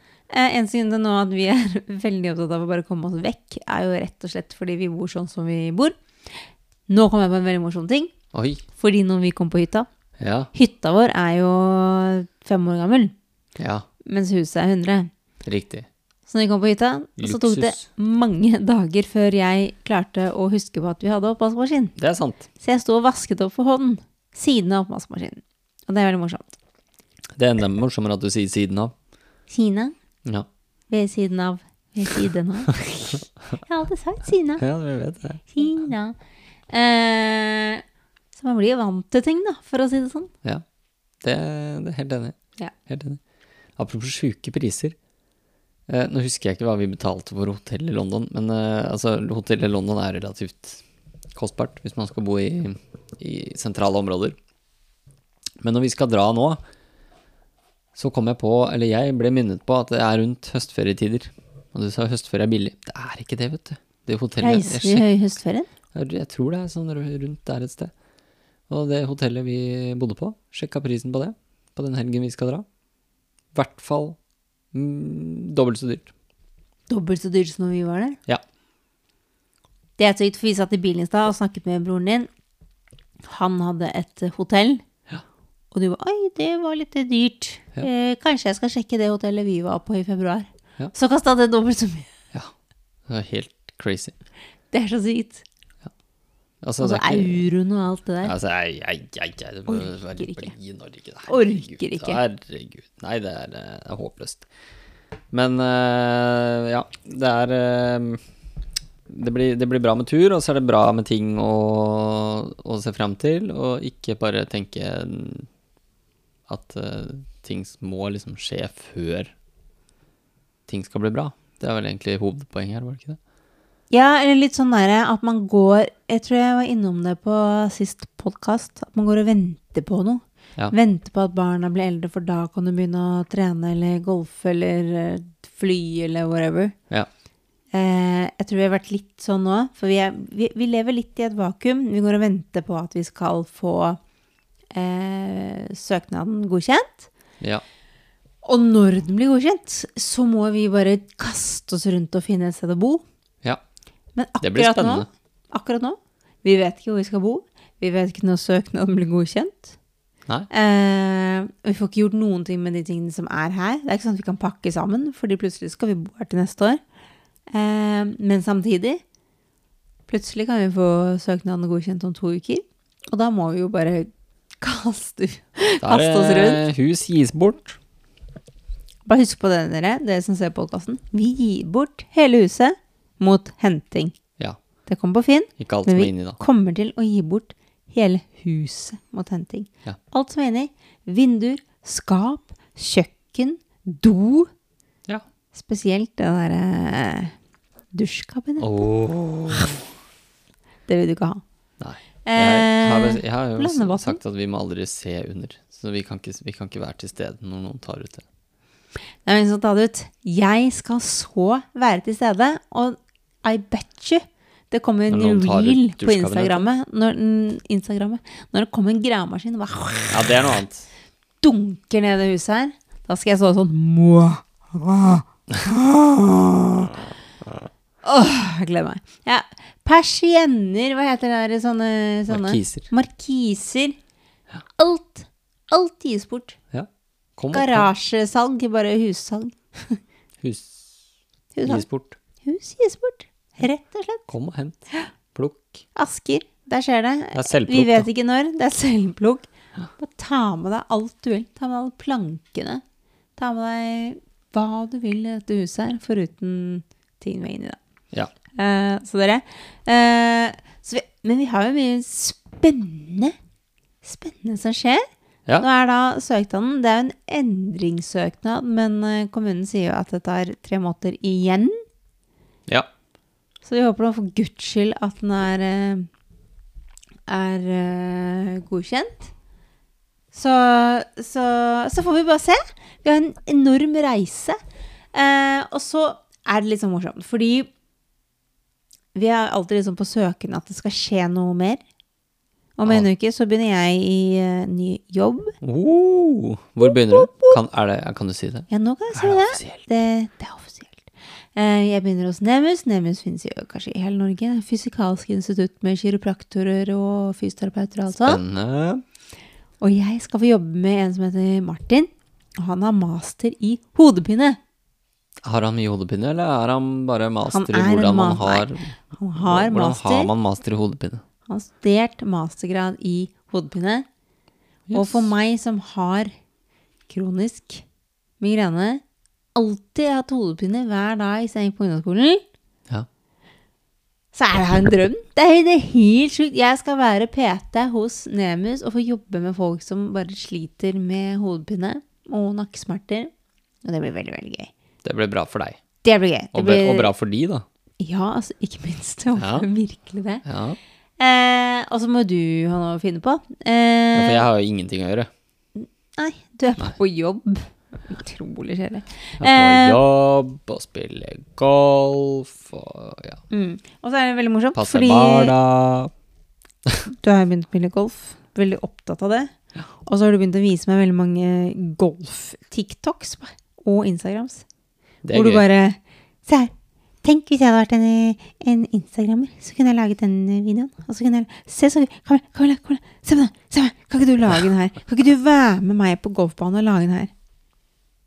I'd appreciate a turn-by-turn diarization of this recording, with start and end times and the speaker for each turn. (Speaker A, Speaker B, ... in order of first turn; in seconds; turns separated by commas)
Speaker A: 0.3-6.3, Speaker A: 6.9-8.1, Speaker B: 8.3-8.6, Speaker A: 8.7-9.9, Speaker B: 10.2-10.5, Speaker A: 10.5-13.1, Speaker B: 13.6-13.8, Speaker A: 14.0-15.1, Speaker B: 15.4-15.9, Speaker A: 16.3-21.9, Speaker B: 17.2-17.8, Speaker B: 22.0-22.5, Speaker A: 22.6-26.5, Speaker B: 27.4-28.9, Speaker A: 29.5-29.9, Speaker A: 30.9-34.6, Speaker B: 34.6-35.5, Speaker A: 35.5-36.2, Speaker A: 36.7-40.3, Speaker B: 41.2-43.2, Speaker B: 43.8-45.0, Speaker B: 45.9-50.8, Speaker B: 51.3-54.4, Speaker B: 55.6-56.6, Speaker B: 57.9-65.0, Speaker A: 64.4-65.7, Speaker B: 65.9-67.9, Speaker B: 68.7-72.7, Speaker B: 73.5-74.2, Speaker B: 74.7-76.1, Speaker A: 76.9-78.2, Speaker A: 80.0-82.3, Speaker A: 83.2-84.8, Speaker A: 85.7-92.1, Speaker B: 93.1-94.1, Speaker A: 94.7-95.4, Speaker B: 96.6-97.4, Speaker A: 96.8-98.3, Speaker B: 98.2-104.5, Speaker A: 99.7-100.5, Speaker A: 101.3-102.2, Speaker B: 105.3-108.2, Speaker B: 109.1-115.5, Speaker B: 116.5-119.3, Speaker B: 120.7-123.2, Speaker A: 123.9-136.7, Speaker A: 137.7-144.0, Speaker A: 144.7-147.1, Speaker A: 148.4-153.0, Speaker A: 154.1-159.8, Speaker B: 154.4-155.1, Speaker A: 160.5-166.8, Speaker A: 167.5-169.0, Speaker A: 170.1-176.6, Speaker B: 175.8-177.8, Speaker A: 179.0-184.2, Speaker A: 184.8-194.5, Speaker B: 185.6-186.4, Speaker A: 195.5-197.3, Speaker A: 197.9-198.7, Speaker B: 198.6-199.8, Speaker A: 200.9-201.4, Speaker B: 201.8-208.2, Speaker A: 202.2-204.2, Speaker A: 209.2-220.3, Speaker B: 215.1-216.7, Speaker B: 220.1-220.9, Speaker A: 221.4-227.1, Speaker A: 228.0-234.0, Speaker B: 232.3-232.9, Speaker A: 234.8-236.6, Speaker B: 236.7-237.9, Speaker A: 237.5-240.0, Speaker B: 240.4-240.9, Speaker A: 241.5-241.8, Speaker B: 241.6-242.2, Speaker A: 242.4-244.2, Speaker B: 244.3-244.8, Speaker B: 245.3-245.8, Speaker A: 245.9-252.8, Speaker B: 247.3-248.1, Speaker A: 253.4-257.8, Speaker A: 258.5-263.3, Speaker A: 264.0-265.0, Speaker A: 265.6-271.8, Speaker A: 273.6-276.1, Speaker A: 277.3-279.3, Speaker A: 280.3-284.6, Speaker A: 285.1-287.7, Speaker A: 289.1-291.8, Speaker A: 292.8-295.5, Speaker B: 295.6-299.9, Speaker A: 296.8-297.6, Speaker A: 298.7-308.4, Speaker B: 308.1-309.0, Speaker A: 309.8-314.6, Speaker B: 315.4-321.2, Speaker A: 317.5-320.3, Speaker A: 321.5-324.1, Speaker B: 324.9-325.3, Speaker A: 324.9-326.3, Speaker A: 327.1-327.8, Speaker A: 328.4-329.0, Speaker A: 329.5-332.4, Speaker A: 334.3-343.3, Speaker A: 343.8-344.7, Speaker B: 345.0-345.8, Speaker A: 346.0-347.1, Speaker B: 346.5-347.6, Speaker A: 348.0-350.4, Speaker B: 349.4-349.7, Speaker B: 350.4-350.8, Speaker A: 351.2-354.5, Speaker B: 354.1-355.3, Speaker A: 355.8-360.0, Speaker B: 359.4-363.4, Speaker A: 363.5-365.5, Speaker B: 364.7-366.1, Speaker A: 367.1-369.5, Speaker A: 370.1-374.6, Speaker B: 375.2-375.6, Speaker A: 375.3-376.7, Speaker A: 377.2-387.3